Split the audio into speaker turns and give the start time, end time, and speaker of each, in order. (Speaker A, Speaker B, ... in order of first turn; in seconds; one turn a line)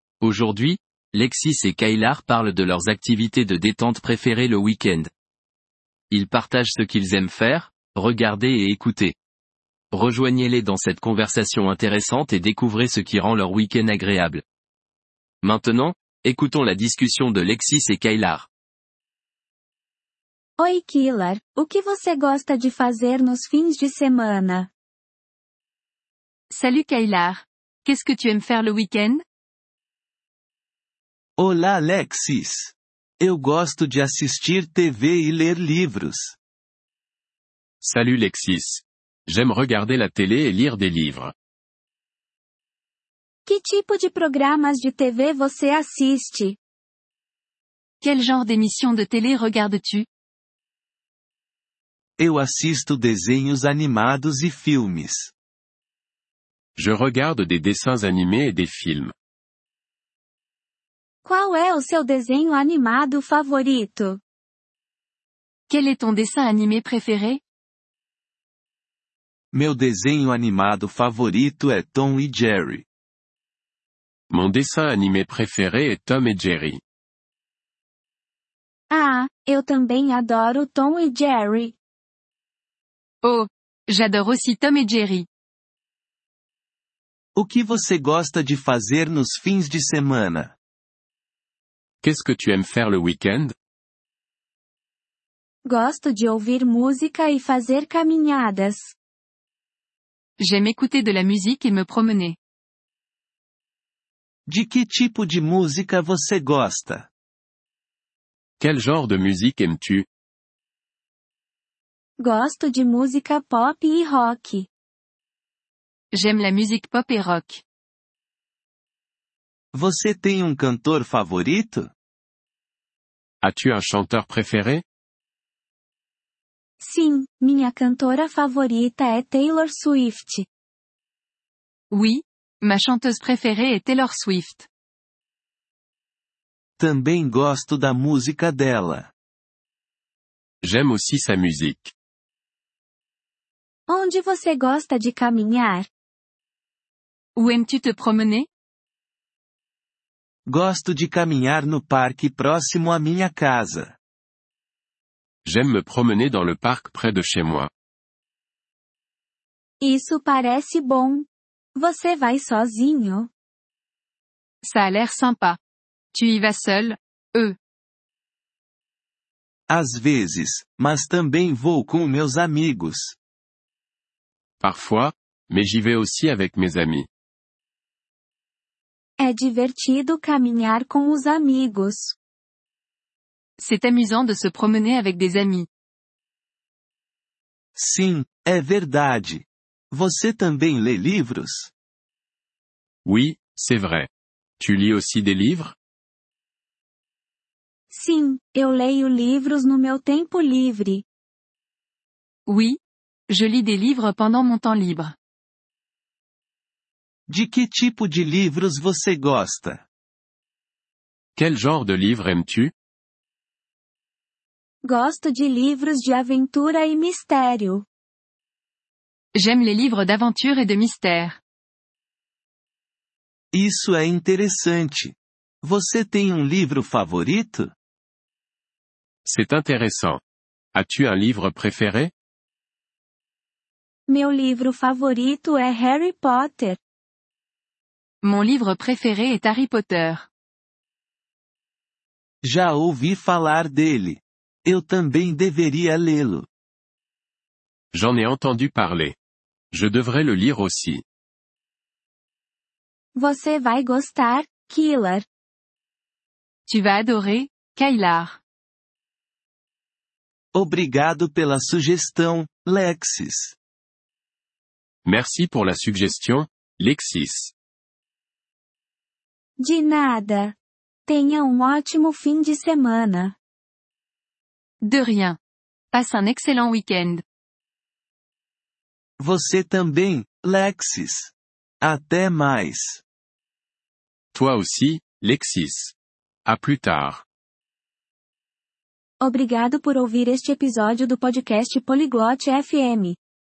Speaker A: 0.2-5.1
Speaker A: 6.1-9.2
Speaker A: 9.9-14.4
Speaker A: 15.4-18.5
Speaker B: 20.6-24.7
Speaker C: 26.5-29.2
Speaker D: 31.4-36.4
Speaker E: 37.8-41.3
Speaker B: 43.5-46.6
Speaker C: 48.0-50.1
Speaker D: 52.2-55.3
Speaker E: 56.8-59.1
Speaker B: 61.2-64.2
Speaker C: 65.7-67.4
Speaker D: 69.5-72.8
Speaker E: 74.3-76.8
Speaker B: 78.9-81.8
Speaker C: 83.2-85.3
Speaker D: 87.3-90.5
Speaker E: 92.0-93.5
Speaker B: 95.6-98.9
Speaker C: 100.4-102.4
Speaker D: 104.5-107.1
Speaker E: 108.6-110.1
Speaker B: 112.2-114.7
Speaker C: 116.1-117.6
Speaker D: 119.7-121.9
Speaker E: 123.4-124.8
Speaker B: 126.8-130.5
Speaker C: 131.9-134.7
Speaker D: 136.8-139.1
Speaker E: 140.6-141.9
Speaker B: 143.9-145.9
Speaker C: 147.3-148.5
Speaker D: 150.5-153.9
Speaker E: 155.4-157.7
Speaker B: 159.8-163.3
Speaker C: 164.6-165.6
Speaker C: 166.1-167.6
Speaker D: 169.7-173.2
Speaker E: 174.6-177.1
Speaker B: 179.2-182.2
Speaker C: 183.6-185.7
Speaker D: 187.7-191.7
Speaker E: 193.0-194.1
Speaker E: 194.6-195.8
Speaker B: 197.9-201.0
Speaker C: 202.4-205.1
Speaker D: 207.3-209.8
Speaker E: 211.3-212.7
Speaker B: 214.8-217.8
Speaker C: 219.3-221.4
Speaker D: 223.5-227.7
Speaker E: 229.2-230.2
Speaker E: 230.7-232.1
Speaker B: 234.1-236.8
Speaker C: 238.2-240.3
Speaker D: 242.4-246.5
Speaker E: 247.9-249.2
Speaker E: 249.7-251.0
Speaker B: 253.1-255.2
Speaker C: 256.7-258.4
Speaker D: 260.5-263.5
Speaker E: 265.0-267.5
Speaker B: 269.6-273.4
Speaker C: 274.8-275.4
Speaker C: 275.9-277.2
Speaker D: 279.2-283.0
Speaker E: 284.3-285.9
Speaker E: 286.4-287.2
Speaker B: 289.2-293.2